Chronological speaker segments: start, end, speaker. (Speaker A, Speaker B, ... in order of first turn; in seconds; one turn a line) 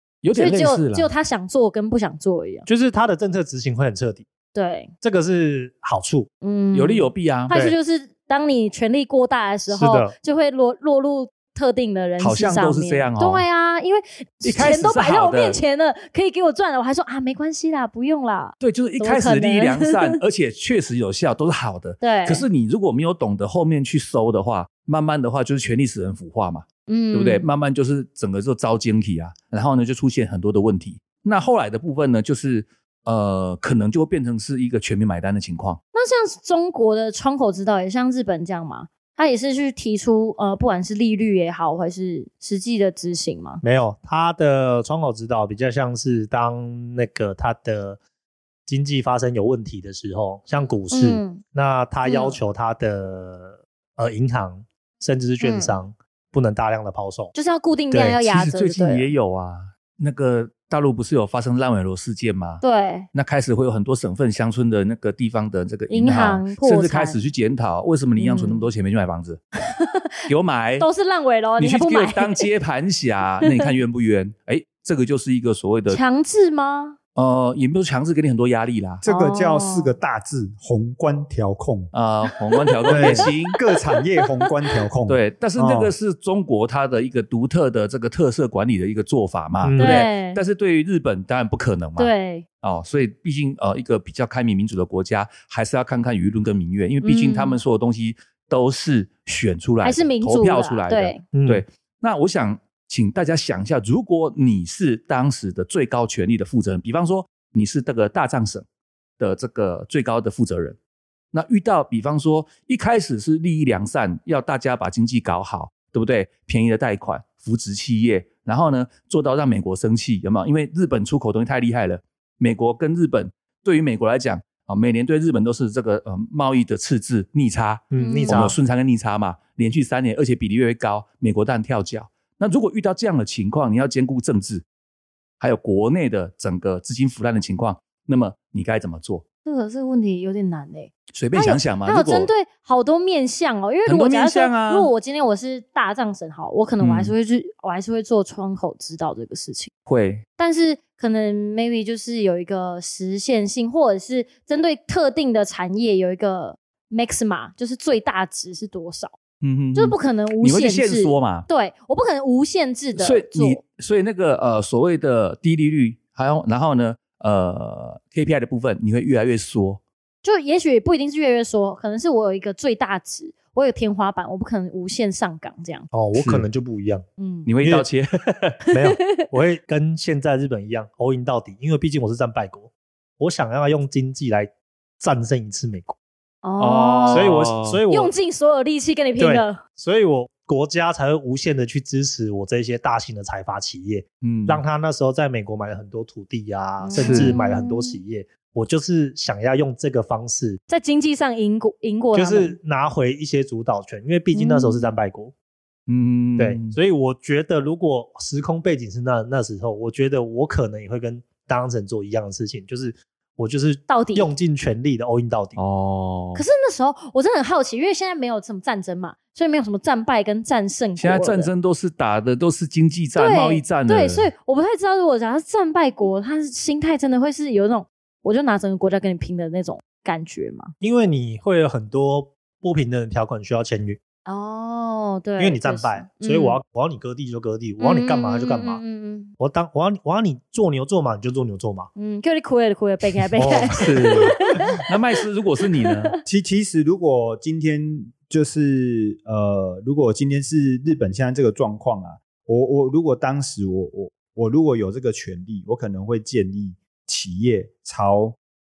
Speaker A: 0.2-1.1
Speaker B: 0.3-2.7
Speaker C: 2.6-4.2
Speaker B: 4.5-4.9
Speaker C: 5.0-6.3
Speaker B: 6.4-20.2
Speaker A: 6.7-7.5
Speaker C: 7.5-7.8
Speaker C: 9.7-10.1
Speaker A: 12.2-13.4
Speaker A: 14.4-15.6
Speaker A: 18.6-35.8
Speaker B: 22.0-22.4
Speaker B: 26.9-27.4
Speaker B: 35.9-43.6
Speaker C: 43.6-48.0
Speaker C: 48.7-57.3
Speaker B: 50.9-51.4
Speaker B: 52.0-52.4
Speaker B: 55.4-55.8
Speaker B: 57.3-59.1
Speaker C: 57.9-58.2
Speaker A: 58.2-69.4
Speaker B: 62.6-63.1
Speaker B: 65.9-67.2
Speaker B: 68.2-68.7
Speaker B: 69.7-72.5
Speaker A: 70.3-70.9
Speaker A: 71.6-76.0
Speaker B: 73.4-73.7
Speaker B: 75.9-77.0
Speaker A: 77.2-79.0
Speaker B: 79.0-79.9
Speaker D: 79.0-81.9
Speaker A: 81.9-83.6
Speaker B: 82.3-83.4
Speaker D: 82.9-85.9
Speaker A: 85.1-108.6
Speaker C: 89.6-90.0
Speaker B: 89.8-90.4
Speaker B: 92.0-92.4
Speaker B: 97.0-97.6
Speaker B: 99.8-101.2
Speaker C: 101.3-101.6
Speaker A: 109.2-110.8
Speaker A: 111.3-134.6
Speaker C: 127.9-128.6
Speaker B: 128.0-128.5
Speaker A: 135.4-139.2
Speaker B: 139.4-149.7
Speaker A: 141.1-142.3
Speaker A: 143.8-144.9
Speaker A: 146.8-147.1
Speaker A: 149.9-150.2
Speaker B: 150.4-159.2
Speaker A: 159.4-161.5
Speaker B: 159.7-163.6
Speaker A: 163.0-169.8
Speaker B: 170.2-175.9
Speaker C: 175.9-177.0
Speaker A: 176.1-176.4
Speaker B: 177.2-177.5
Speaker A: 177.4-178.6
Speaker C: 177.6-177.9
Speaker C: 178.7-186.0
Speaker B: 178.8-179.2
Speaker B: 186.4-187.3
Speaker A: 186.6-187.8
Speaker C: 187.1-188.1
Speaker B: 187.9-189.6
Speaker C: 189.2-200.6
Speaker A: 194.2-194.6
Speaker B: 196.8-198.0
Speaker A: 197.0-197.3
Speaker B: 200.7-202.6
Speaker C: 202.1-205.3
Speaker B: 204.3-204.9
Speaker A: 205.9-206.7
Speaker C: 206.4-215.6
Speaker B: 213.9-214.3
Speaker A: 215.6-216.4
Speaker B: 216.3-221.5
Speaker A: 221.0-224.3
Speaker B: 223.2-230.7
Speaker C: 230.8-234.0
Speaker B: 234.2-236.6
Speaker C: 235.4-238.8
Speaker B: 237.8-239.3
Speaker C: 239.4-241.9
Speaker B: 241.9-244.8
Speaker C: 243.3-244.3
Speaker A: 243.7-246.1
Speaker B: 245.8-246.2
Speaker D: 246.2-258.4